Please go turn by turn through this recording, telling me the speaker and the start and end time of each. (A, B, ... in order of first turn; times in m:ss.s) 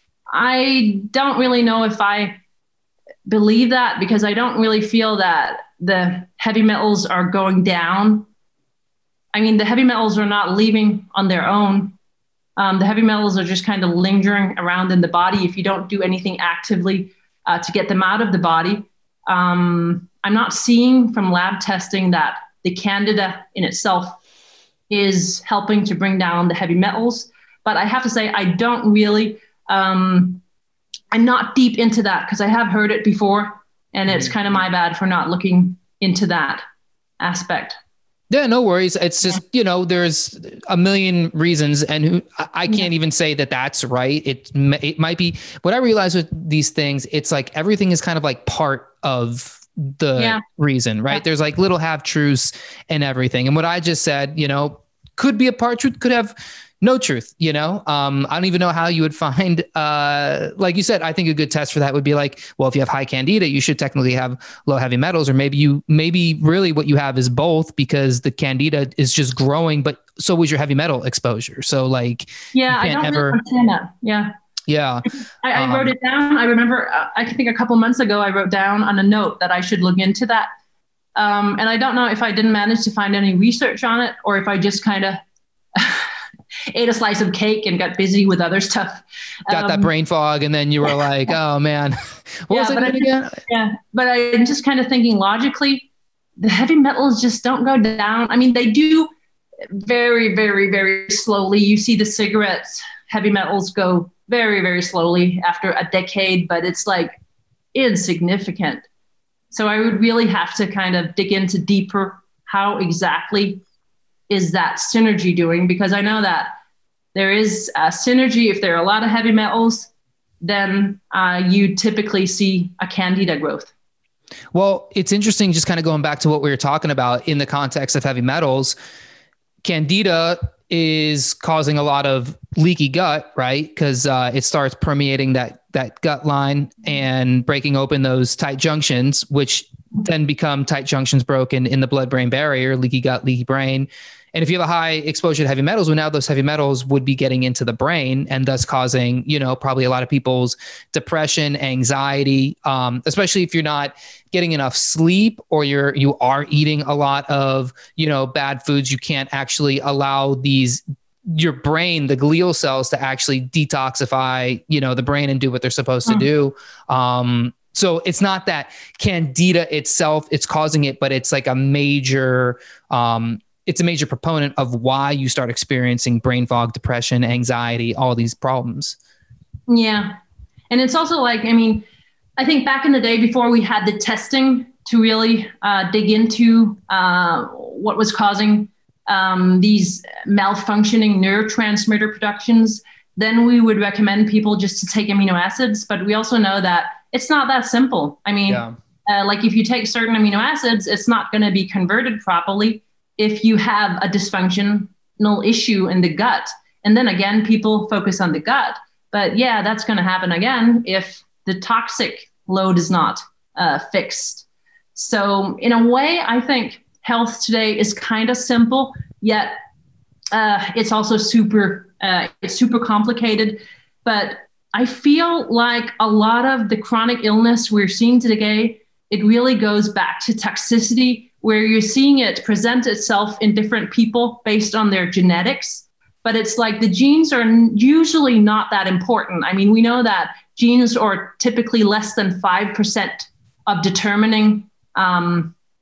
0:00.3-0:02.4 A
0:03.3-0:08.3 A
0:09.3-0:12.0 A
0:12.6-0:24.2 A
0:24.9-0:30.4 A
0:31.1-0:36.6 A
0:37.2-0:37.8 A
0:38.3-1:13.4 B
0:50.2-0:50.4 A
1:12.5-1:14.3 A
1:14.7-1:15.9 B
1:15.4-1:20.5 A
1:21.2-1:25.2 A
1:25.7-1:26.1 A
1:26.7-1:29.9 A
1:29.5-1:33.4 B
1:32.5-1:39.1 A
1:39.7-1:47.2 A
1:47.7-1:48.8 A
1:49.5-1:53.6 A
1:54.3-1:56.5 A
1:57.1-1:59.9 A
2:00.4-2:03.7 A
2:04.5-2:08.8 B
2:09.6-2:59.0 B
2:59.7-3:00.2 A
3:00.7-3:01.8 A
3:02.4-3:39.6 A
3:18.5-3:18.8 B
3:40.3-4:05.5 A